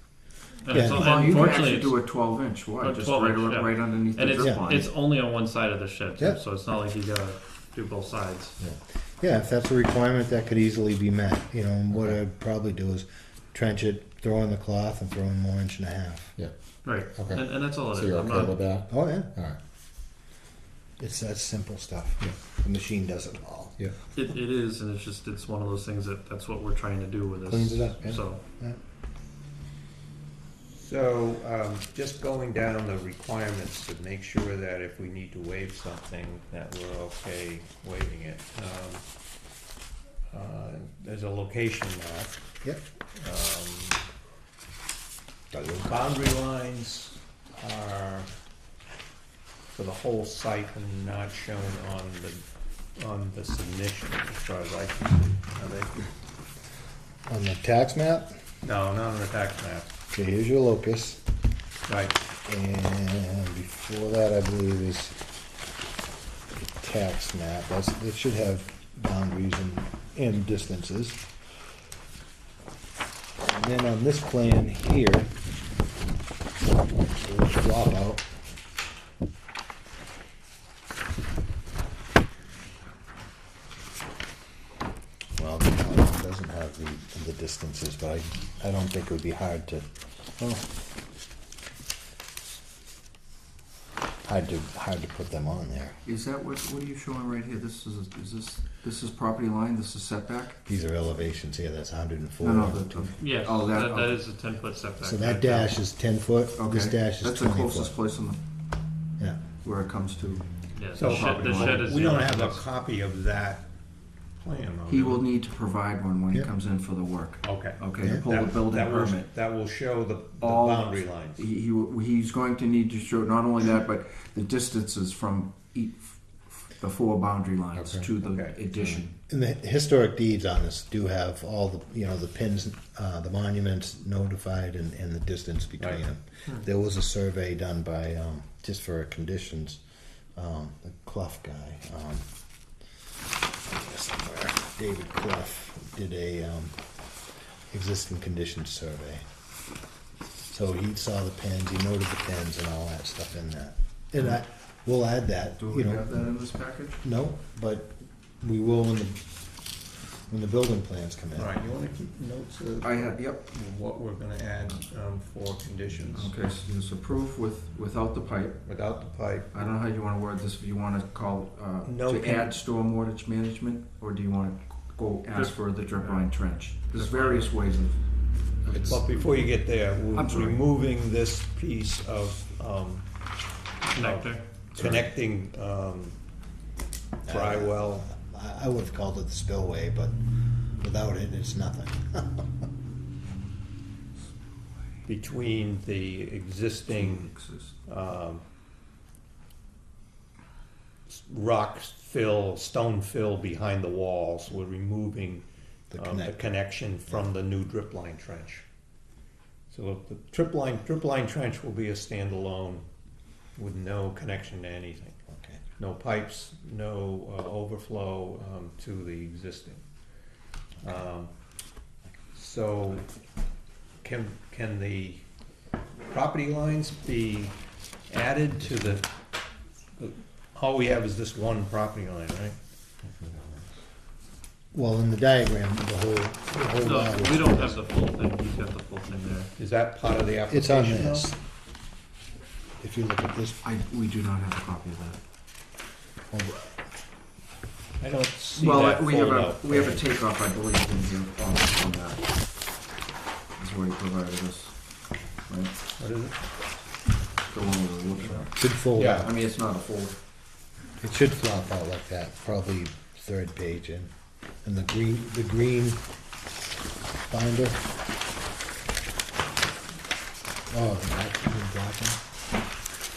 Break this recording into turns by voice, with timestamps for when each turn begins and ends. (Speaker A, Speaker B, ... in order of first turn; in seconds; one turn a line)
Speaker A: 0.7-2.0
Speaker B: 0.7-1.1
Speaker C: 0.8-4.9
Speaker A: 2.8-8.6
Speaker B: 9.2-16.4
Speaker A: 16.8-18.6
Speaker D: 17.1-19.6
Speaker B: 18.9-19.4
Speaker B: 21.0-23.8
Speaker A: 24.1-28.4
Speaker B: 27.5-28.8
Speaker E: 30.7-39.0
Speaker E: 40.3-42.4
Speaker E: 43.2-44.1
Speaker B: 45.5-46.1
Speaker E: 45.8-48.3
Speaker E: 49.7-52.4
Speaker E: 53.0-56.0
Speaker B: 57.3-58.3
Speaker E: 58.6-59.9
Speaker B: 60.1-61.2
Speaker E: 61.9-62.2
Speaker B: 62.4-65.2
Speaker B: 66.6-71.2
Speaker B: 73.4-75.3
Speaker B: 77.2-78.3
Speaker B: 85.4-89.9
Speaker B: 90.4-90.7
Speaker B: 94.2-96.0
Speaker C: 96.0-100.6
Speaker B: 100.7-103.1
Speaker C: 102.4-104.2
Speaker A: 103.2-105.8
Speaker B: 105.0-107.9
Speaker C: 106.6-108.4
Speaker C: 109.6-110.5
Speaker A: 110.8-112.6
Speaker E: 110.9-113.7
Speaker C: 111.0-112.0
Speaker E: 114.4-115.3
Speaker C: 114.9-119.3
Speaker E: 117.4-121.5
Speaker C: 120.4-129.2
Speaker D: 127.8-128.1
Speaker E: 128.2-128.6
Speaker B: 129.3-139.8
Speaker B: 140.4-142.2
Speaker B: 143.7-146.8
Speaker B: 147.7-149.2
Speaker B: 150.5-156.1
Speaker C: 155.6-157.0
Speaker B: 157.0-159.2
Speaker B: 160.3-161.5
Speaker E: 161.4-166.3
Speaker C: 162.8-163.4
Speaker C: 166.1-168.6
Speaker E: 168.6-169.6
Speaker C: 169.5-178.0
Speaker E: 171.8-172.5
Speaker A: 175.3-176.2
Speaker E: 176.9-177.5
Speaker C: 178.6-179.1
Speaker E: 178.7-183.1
Speaker C: 180.1-180.6
Speaker E: 183.9-186.2
Speaker A: 183.9-184.4
Speaker B: 184.8-185.1
Speaker B: 187.2-190.2
Speaker E: 187.3-188.1
Speaker B: 190.8-192.5
Speaker E: 195.1-197.3
Speaker C: 196.9-197.7
Speaker E: 197.9-198.4
Speaker E: 201.1-205.4
Speaker B: 205.9-206.3
Speaker E: 206.0-208.6
Speaker E: 209.7-212.8
Speaker E: 213.6-215.2
Speaker B: 215.3-215.6
Speaker E: 215.8-219.8
Speaker E: 220.8-221.3
Speaker E: 222.3-223.1
Speaker E: 224.0-225.2
Speaker E: 226.1-227.6
Speaker E: 228.1-229.1
Speaker E: 230.0-232.6
Speaker D: 233.2-233.6
Speaker B: 234.7-237.8
Speaker A: 236.8-239.5
Speaker E: 239.6-241.3
Speaker B: 240.5-241.4
Speaker B: 242.8-243.6
Speaker C: 243.6-245.2
Speaker B: 246.3-246.7
Speaker E: 248.0-250.0
Speaker C: 248.6-252.2
Speaker C: 253.6-254.8
Speaker C: 255.5-255.7
Speaker E: 256.0-256.4
Speaker C: 257.5-260.2
Speaker B: 258.6-259.3
Speaker E: 258.9-259.3
Speaker B: 261.0-264.1
Speaker B: 264.6-266.0
Speaker B: 267.3-267.8
Speaker B: 270.7-272.2